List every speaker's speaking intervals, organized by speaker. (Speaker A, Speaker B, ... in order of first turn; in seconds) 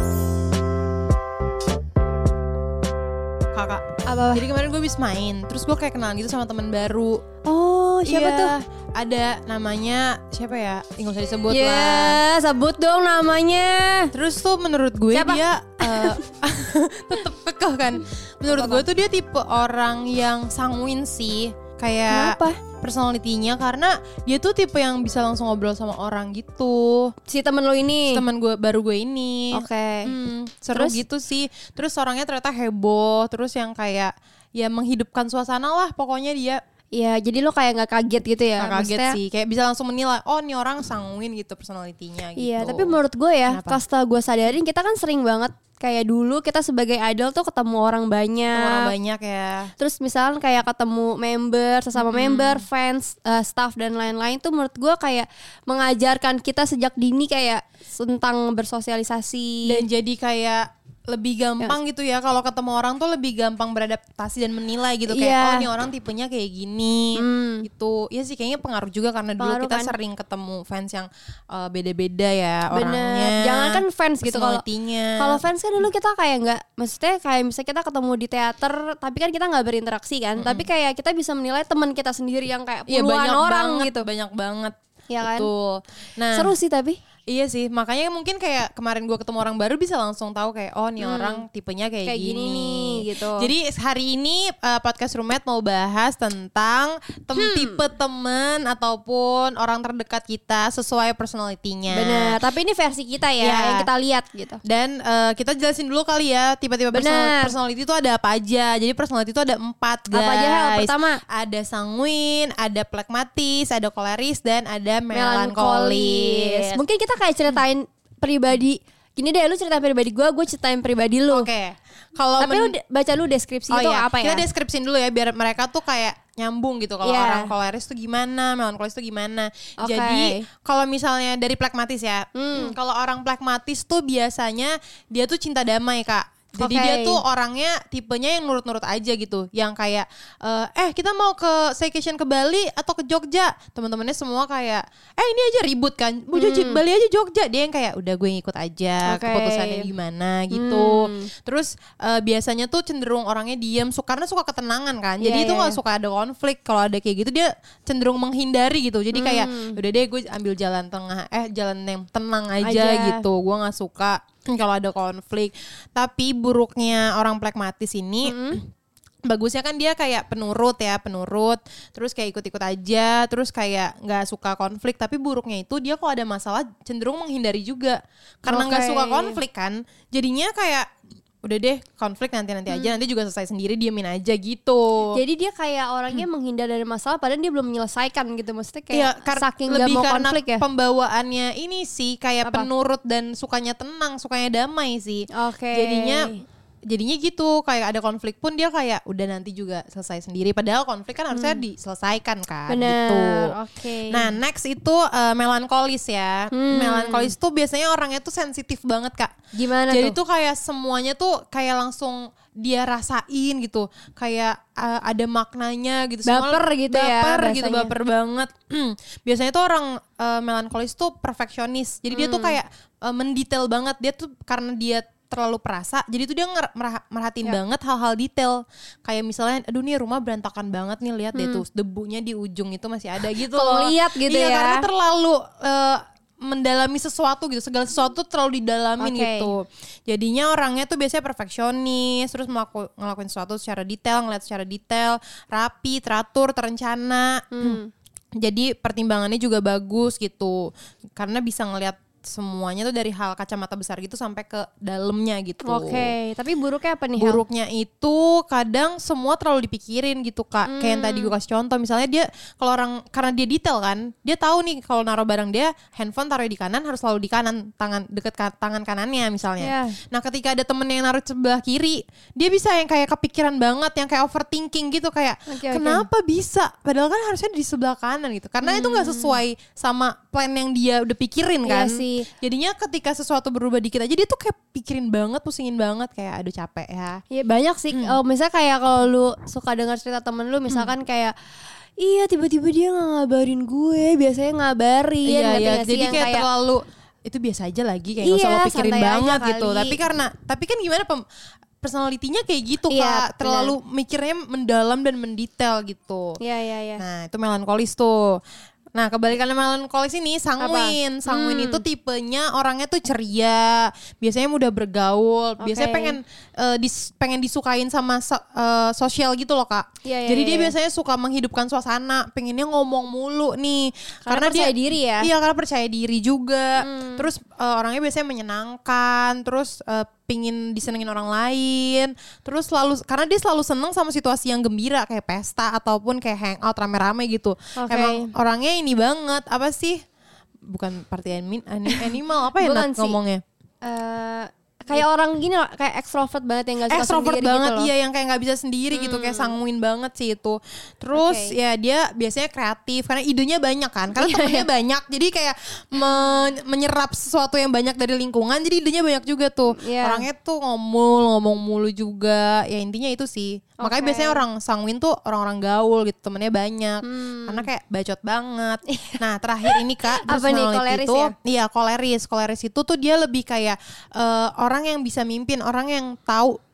Speaker A: 3.5-7.2, 8.1-12.2, 14.1-27.1, 28.1-36.6, 38.6-43.0, 43.5-43.8, 48.5-49.7, 52.0-52.6, 59.6-75.4, 80.4-80.7, 82.9-86.5, 87.3-102.4, 103.4-103.9, 104.6-116.8, 121.3-122.8, 123.7-168.6, 169.2-180.9, 181.4-185.2, 188.9-196.3, 196.9-203.5, 204.1-209.4, 209.9-247.8, 248.4-256.1, 257.2-287.2, 295.2-301.2, 301.8-306.4, 307.0-308.4, 308.9-340.0, 340.6-343.4, 346.9-376.6
Speaker B: 4.0-4.5, 7.5-8.5, 11.5-14.1, 15.1-16.2, 18.6-18.8, 22.1-22.6, 27.3-28.2, 29.5-30.1, 30.7-31.0, 36.9-39.2, 42.4-48.9, 49.8-59.8, 65.1-65.7, 67.1-67.7, 69.4-69.9, 72.7-74.6, 75.2-84.1, 85.1-85.5, 86.3-87.0, 91.0-91.4, 92.0-93.5, 97.4-97.8, 101.9-104.6, 106.9-107.5, 110.1-111.2, 115.1-121.5, 122.4-124.4, 127.0-127.5, 129.8-130.4, 132.3-132.8, 136.6-137.2, 146.3-146.8, 149.0-149.9, 150.5-151.3, 155.2-155.8, 159.1-159.8, 162.6-163.2, 168.2-168.6, 178.5-179.4, 182.7-182.9, 185.1-190.6, 192.4-192.7, 195.3-196.4, 201.3-201.6, 202.7-204.3, 206.5-207.3, 209.5-210.2, 216.2-217.9, 222.1-222.6, 231.3-231.6, 233.5-234.8, 239.0-239.5, 247.5-247.9, 255.6-257.4, 260.6-261.3, 269.6-270.0, 275.5-276.1, 278.6-279.4, 281.6-282.3, 287.3-291.3, 292.0-296.4, 298.2-300.0, 302.9-303.7, 306.4-307.0, 310.6-311.8, 315.6-316.2, 320.0-320.7, 324.2-325.3, 326.8-327.3, 337.8-338.3, 341.9-343.2, 343.8-347.9, 348.9-349.6, 351.1-351.6, 354.1-354.6, 359.8-360.2, 363.8-364.4, 367.0-367.6, 368.9-371.3